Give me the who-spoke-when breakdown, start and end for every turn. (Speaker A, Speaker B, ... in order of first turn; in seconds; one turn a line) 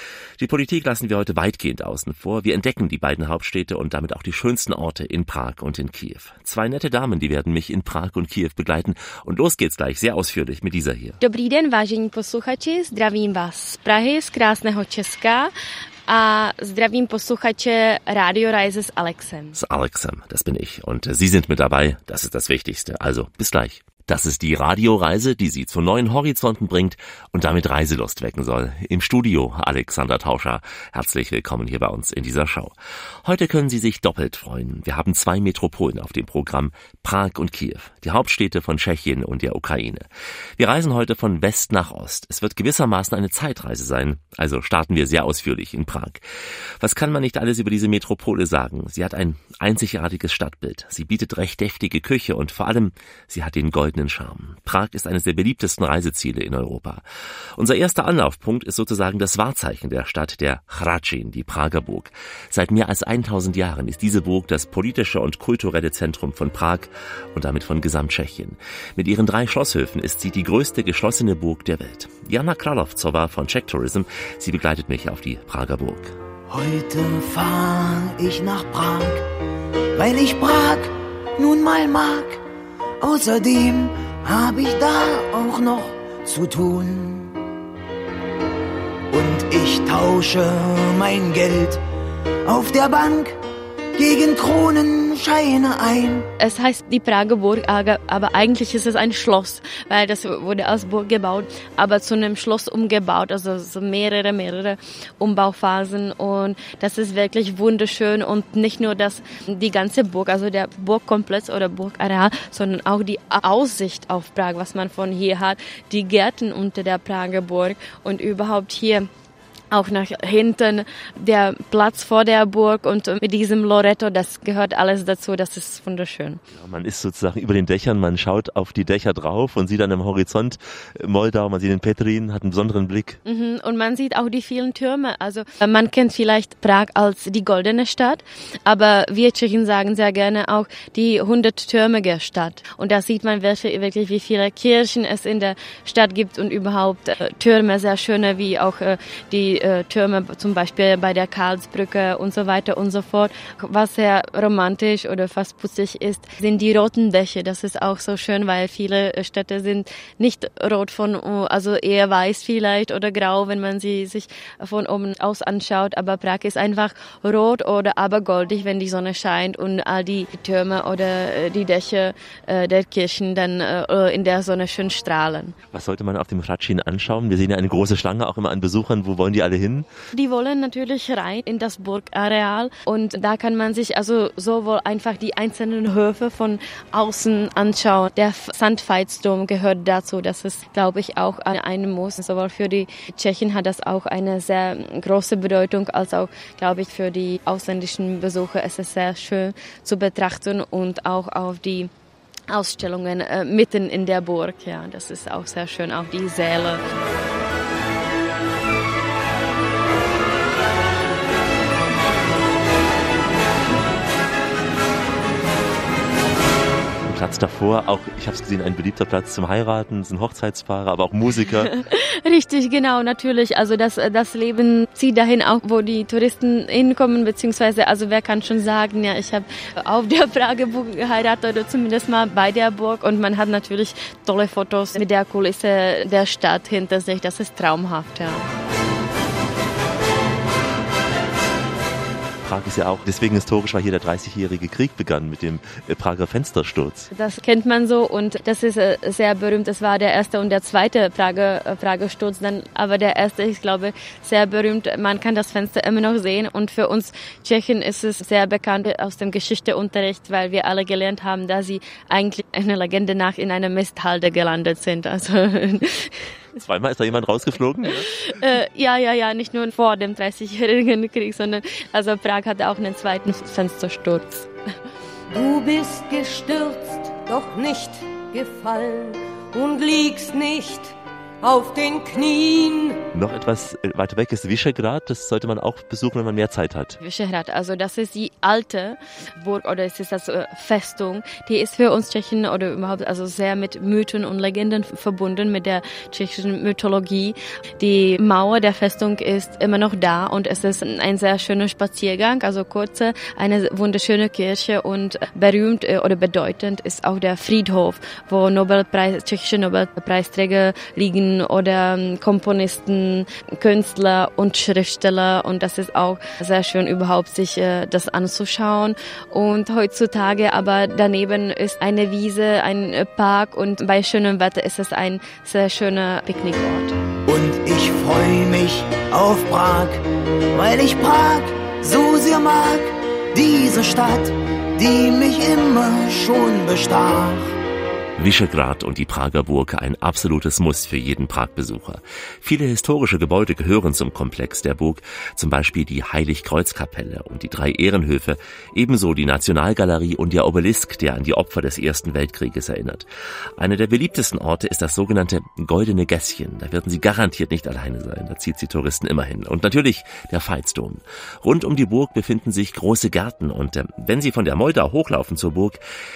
Speaker A: 0.4-11.2
Speaker B: 11.2-15.5
Speaker B: 16.1-19.6
Speaker A: 19.6-40.1
Speaker A: 40.6-46.2
Speaker A: 46.8-57.0
Speaker A: 57.6-76.2
Speaker C: 76.5-79.3
Speaker C: 80.0-82.4
Speaker C: 83.0-87.4
Speaker C: 89.1-91.8
Speaker C: 92.5-93.4
Speaker C: 94.0-96.3
Speaker B: 96.4-119.1
Speaker B: 119.7-126.4
Speaker A: 126.5-133.2
Speaker B: 133.2-175.6
Speaker A: 175.7-179.9
Speaker B: 180.1-201.9
Speaker B: 202.5-206.8
Speaker A: 217.1-221.7
Speaker B: 221.7-238.5
Speaker A: 242.4-247.1
Speaker B: 247.1-266.3
Speaker A: 266.6-268.2
Speaker B: 268.2-274.5
Speaker D: 275.3-283.0
Speaker A: 283.1-287.0
Speaker B: 287.0-326.9
Speaker C: 327.3-337.6
Speaker A: 338.2-365.8